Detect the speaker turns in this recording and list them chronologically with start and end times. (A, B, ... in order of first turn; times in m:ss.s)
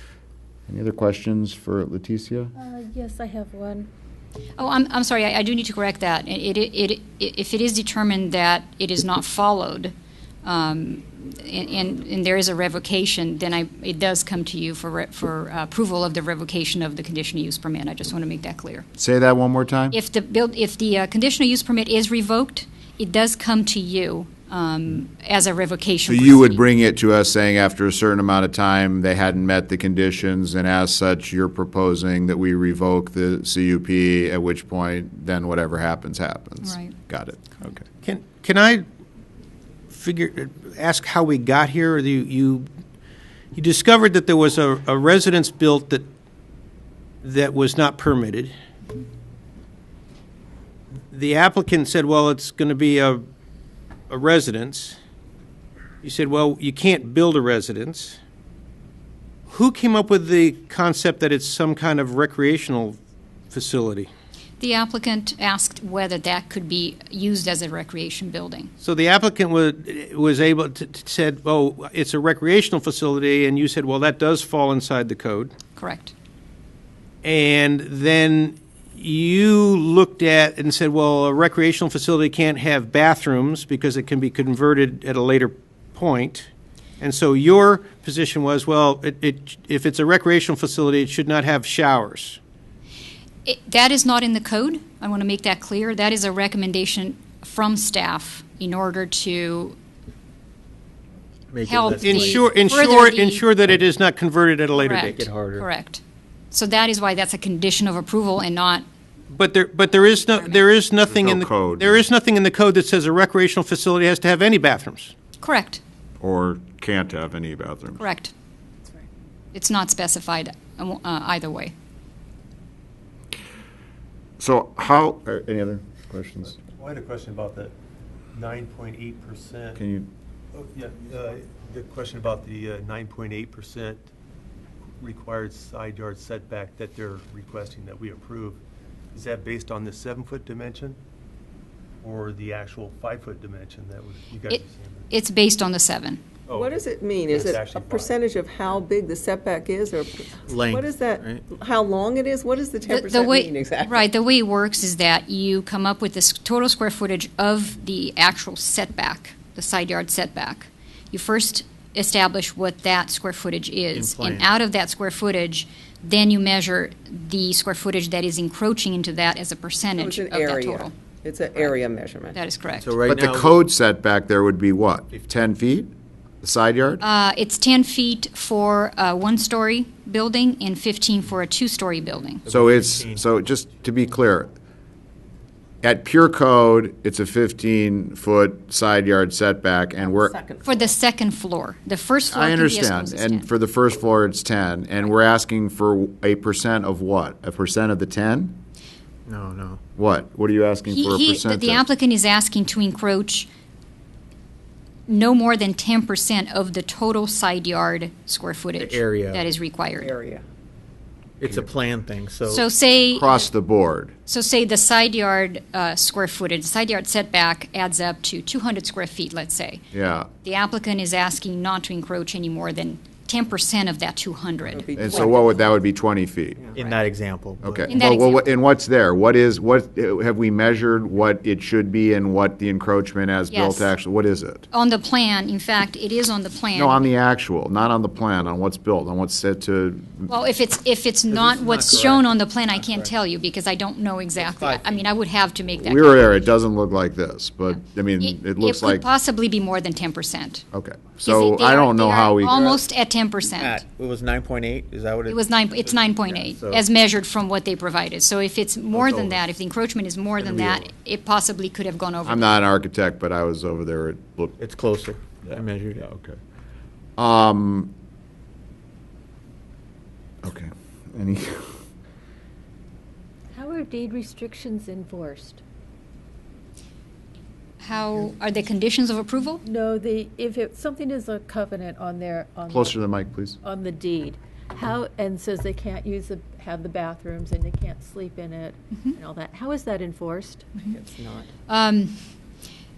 0:00.7-0:02.5 A
0:02.6-0:03.9 B
0:04.6-0:18.8 C
0:19.0-0:20.0 A
0:19.9-0:26.6 C
0:26.1-0:37.8 A
0:36.6-0:36.9 C
0:38.0-0:38.8 D
0:39.9-0:42.7 D
0:43.5-0:46.0 D
0:47.2-0:48.5 D
0:51.1-0:53.2 D
0:54.1-0:55.0 D
0:56.0-0:58.2 D
0:59.5-1:03.0 D
1:03.5-1:04.1 D
1:04.6-1:08.7 C
1:08.8-1:15.5 D
1:15.8-1:16.1 C
1:17.2-1:26.5 D
1:27.0-1:32.4 D
1:33.4-1:39.8 C
1:41.5-1:42.6 E
1:41.6-1:43.5 C
1:42.0-1:44.9 D
1:44.8-1:45.7 E
1:44.8-1:48.8 C
1:49.3-1:55.1 D
1:50.4-1:50.6 C
1:51.1-1:52.0 A
1:55.4-1:55.8 C
1:56.2-1:58.0 A
1:58.0-1:58.3 C
1:59.5-2:01.7 C
2:04.4-2:06.6 A
2:06.7-2:07.7 F
2:08.3-2:09.8 F
2:09.8-2:10.1 A
2:10.5-2:14.0 F
2:15.0-2:18.6 F
2:19.1-2:21.0 F
2:22.0-2:25.0 F
2:24.5-2:26.2 C
2:26.5-2:28.2 F
2:26.5-2:34.1 G
2:30.4-2:31.4 E
2:32.9-2:50.9 C
2:43.9-2:44.5 E
2:50.0-2:52.4 G
2:52.3-2:52.9 C
2:52.7-2:53.6 E
2:53.1-2:55.9 A
2:56.4-2:57.0 A
2:57.0-3:02.4 C
3:02.4-3:03.3 E
3:02.5-3:04.5 A
3:05.8-3:10.3 A
3:10.0-3:10.9 G
3:10.6-3:13.5 C
3:12.3-3:18.6 A
3:19.3-3:19.8 E
3:20.0-3:21.8 A
3:20.9-3:23.5 C
3:25.1-3:30.1 C
3:28.8-3:29.5 E
3:30.0-3:30.4 G
3:31.4-3:32.6 E
3:32.5-3:33.4 C
3:33.1-3:34.1 A
3:34.3-3:39.9 C
3:39.9-3:40.3 A
3:40.4-3:45.2 C
3:44.7-3:45.7 G
3:45.0-3:46.6 A
3:46.6-3:46.9 G
3:46.7-3:47.8 E
3:47.6-3:54.7 A
3:47.9-3:48.5 C
3:53.5-3:53.9 C
3:54.7-3:57.1 C
3:56.7-4:00.3 A
4:00.3-4:06.5 C
4:01.3-4:03.1 E
4:04.4-4:05.0 E
4:05.8-4:09.0 A
4:08.2-4:10.6 C
4:10.7-4:12.7 A
4:11.2-4:13.8 C
4:13.4-4:16.8 E
4:15.3-4:22.5 C
4:19.0-4:19.3 A
4:20.4-4:20.9 E
4:22.2-4:24.6 A
4:24.6-4:26.1 E
4:25.5-4:26.4 A
4:27.2-4:27.9 A
4:30.4-4:31.7 A
4:33.5-4:35.6 B
4:37.8-4:39.6 C
4:39.6-4:50.8 B
4:42.7-4:43.6 A
4:50.9-4:51.5 G
4:51.7-4:52.2 C